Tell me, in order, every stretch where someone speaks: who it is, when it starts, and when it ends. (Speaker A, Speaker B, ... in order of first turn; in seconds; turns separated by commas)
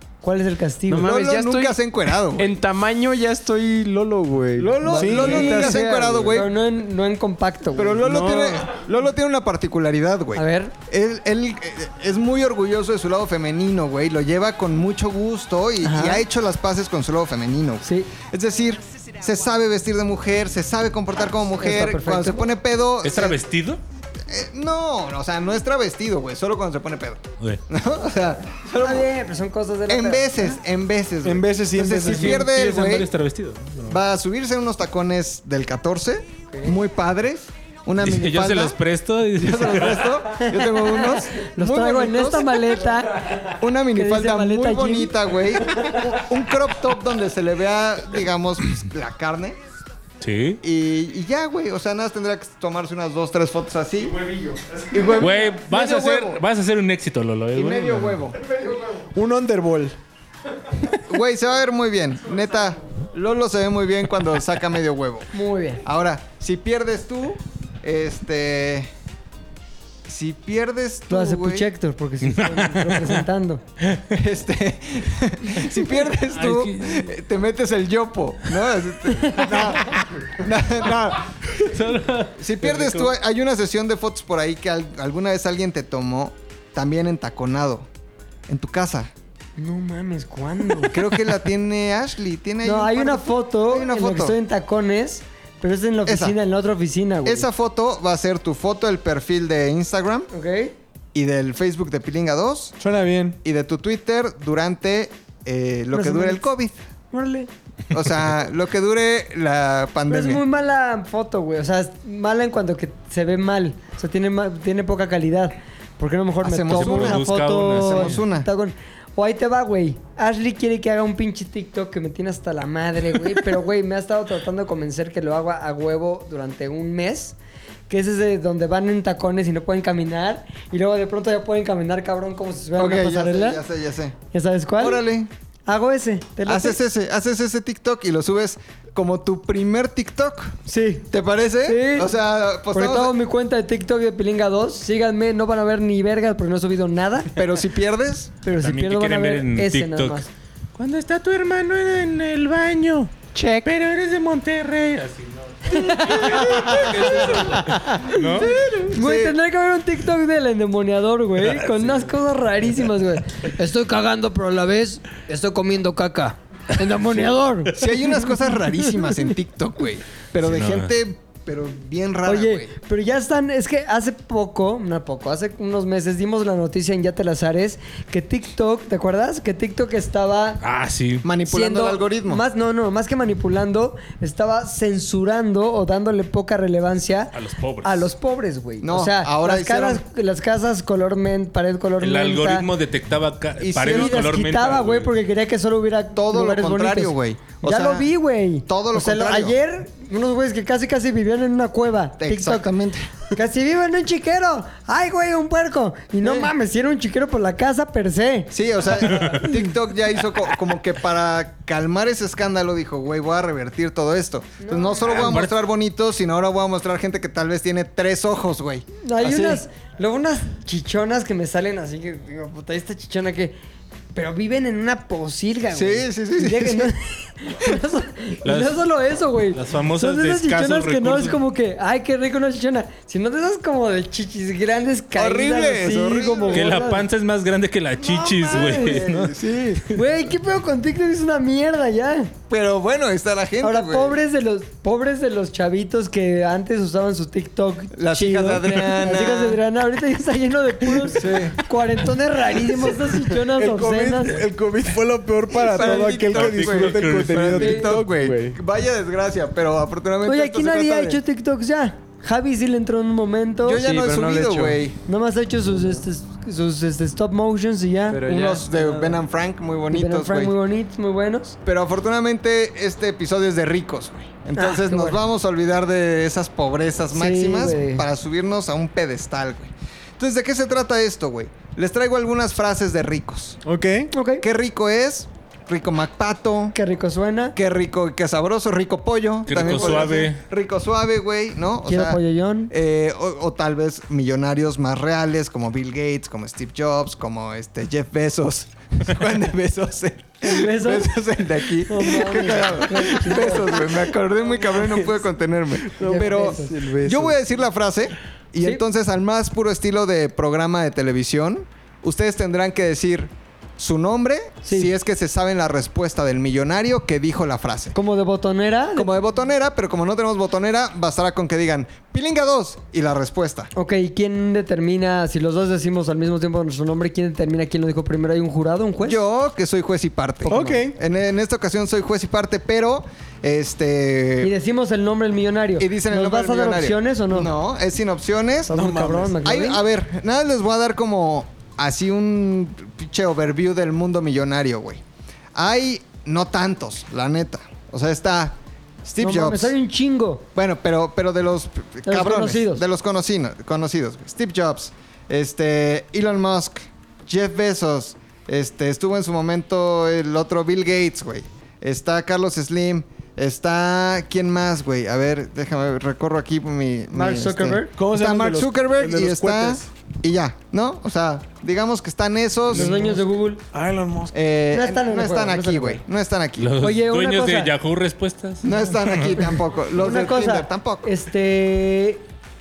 Speaker A: 0.2-1.1, Speaker B: 0.9-6.4, Speaker C: 1.0-2.5, Speaker C: 4.6-6.5, Speaker D: 4.8-5.7, Speaker A: 4.9-5.8, Speaker A: 6.3-8.0, Speaker C: 7.8-23.4, Speaker B: 8.0-8.6, Speaker A: 10.3-10.7, Speaker A: 15.8-16.2, Speaker A: 17.8-18.1, Speaker A: 21.6-22.5, Speaker E: 23.0-23.8, Speaker C: 24.3-29.1, Speaker A: 28.8-30.5, Speaker C: 29.9-33.1, Speaker D: 31.2-32.5, Speaker E: 32.1-34.0, Speaker C: 33.9-38.8, Speaker E: 38.0-40.1, Speaker C: 39.4-42.7, Speaker A: 40.4-45.1, Speaker C: 43.5-49.6, Speaker E: 50.2-50.6, Speaker C: 50.6-54.2, Speaker C: 54.9-56.4, Speaker E: 55.2-58.2, Speaker C: 57.5-58.4, Speaker D: 58.8-60.0, Speaker C: 61.1-65.3, Speaker A: 65.3-65.8, Speaker C: 65.8-68.9, Speaker C: 70.1-71.7, Speaker A: 71.1-73.6, Speaker E: 72.2-73.2, Speaker C: 74.1-81.6, Speaker E: 76.3-77.1, Speaker A: 79.2-79.5, Speaker E: 81.6-83.1, Speaker C: 82.4-87.9, Speaker C: 88.5-89.1, Speaker A: 89.6-91.0, Speaker C: 90.8-94.4, Speaker A: 92.6-97.5, Speaker C: 96.1-96.4, Speaker C: 97.2-100.3, Speaker A: 100.3-100.7, Speaker C: 101.1-102.8, Speaker D: 102.8-103.4, Speaker C: 103.4-106.8, Speaker A: 105.9-106.4, Speaker A: 107.1-107.5, Speaker C: 107.9-110.4, Speaker A: 110.1-127.4, Speaker C: 116.4-117.3, Speaker E: 116.7-118.2, Speaker C: 117.8-118.5, Speaker A: 127.9-133.6, Speaker C: 132.8-134.2, Speaker A: 134.3-135.0, Speaker C: 134.8-135.3, Speaker A: 135.7-136.8, Speaker C: 136.5-140.6, Speaker A: 140.7-141.1, Speaker C: 141.1-143.1, Speaker A: 141.7-142.1, Speaker A: 142.7-147.3, Speaker C: 147.4-148.3, Speaker A: 148.4-150.3, Speaker E: 148.6-150.2, Speaker E: 150.8-158.6, Speaker B: 153.4-153.6, Speaker A: 155.7-156.9, Speaker B: 157.0-157.6, Speaker A: 157.6-158.3, Speaker C: 158.4-159.3, Speaker A: 158.8-168.2, Speaker C: 167.7-172.7, Speaker E: 170.4-170.9, Speaker A: 172.3-180.6, Speaker E: 180.6-181.3, Speaker C: 181.2-182.4, Speaker A: 181.5-192.7, Speaker E: 187.3-188.1, Speaker C: 188.8-190.0, Speaker E: 192.0-195.1, Speaker C: 193.6-194.4, Speaker A: 193.8-202.7, Speaker C: 196.2-198.1, Speaker C: 198.7-199.6, Speaker C: 202.2-203.1, Speaker A: 203.3-208.5, Speaker C: 206.2-206.5, Speaker C: 208.5-219.6, Speaker E: 209.1-209.4, Speaker A: 209.4-209.7, Speaker A: 214.6-215.3, Speaker E: 215.1-215.5, Speaker A: 219.0-223.6, Speaker A: 224.2-237.1, Speaker C: 225.7-226.9, Speaker E: 228.4-228.8, Speaker E: 229.5-231.4, Speaker C: 235.2-236.9, Speaker E: 236.5-239.3, Speaker A: 238.1-239.1, Speaker C: 238.3-239.9, Speaker A: 239.9-242.3, Speaker C: 242.5-244.2, Speaker A: 243.6-254.4, Speaker C: 247.9-249.6, Speaker C: 251.1-251.6, Speaker D: 253.4-258.6, Speaker C: 255.5-261.2, Speaker E: 256.2-257.6, Speaker A: 257.6-257.9, Speaker A: 260.2-263.8, Speaker C: 263.6-265.0, Speaker B: 263.8-264.8, Speaker A: 265.1-268.2, Speaker B: 268.1-269.2, Speaker C: 268.2-270.6, Speaker A: 269.9-271.6, Speaker C: 271.6-283.6, Speaker A: 274.6-275.2, Speaker A: 277.1-278.1, Speaker D: 283.7-284.1, Speaker A: 284.1-284.4, Speaker C: 284.4-286.8, Speaker A: 286.7-287.6, Speaker C: 287.6-318.0, Speaker E: 289.5-290.4, Speaker A: 291.9-292.7, Speaker A: 300.4-301.1, Speaker A: 301.9-303.8, Speaker B: 305.9-307.4, Speaker A: 306.0-306.8, Speaker A: 314.6-314.9, Speaker A: 317.9-319.1, Speaker C: 319.0-323.7, Speaker A: 323.8-329.2, Speaker C: 329.0-334.5, Speaker A: 330.4-330.8, Speaker D: 330.5-330.9, Speaker A: 334.4-337.5, Speaker C: 335.8-338.8, Speaker A: 338.7-339.8, Speaker D: 338.7-339.4, Speaker C: 339.4-345.0, Speaker C: 345.6-349.8, Speaker A: 349.2-350.4, Speaker C: 350.6-373.1, Speaker A: 352.1-352.9, Speaker A: 367.1-367.9, Speaker D: 368.0-369.9, Speaker A: 372.7-373.6, Speaker D: 372.7-374.4, Speaker C: 374.3-376.8, Speaker A: 374.7-376.0, Speaker E: 376.6-379.4, Speaker A: 376.8-377.7, Speaker C: 378.6-381.1, Speaker A: 379.9-382.2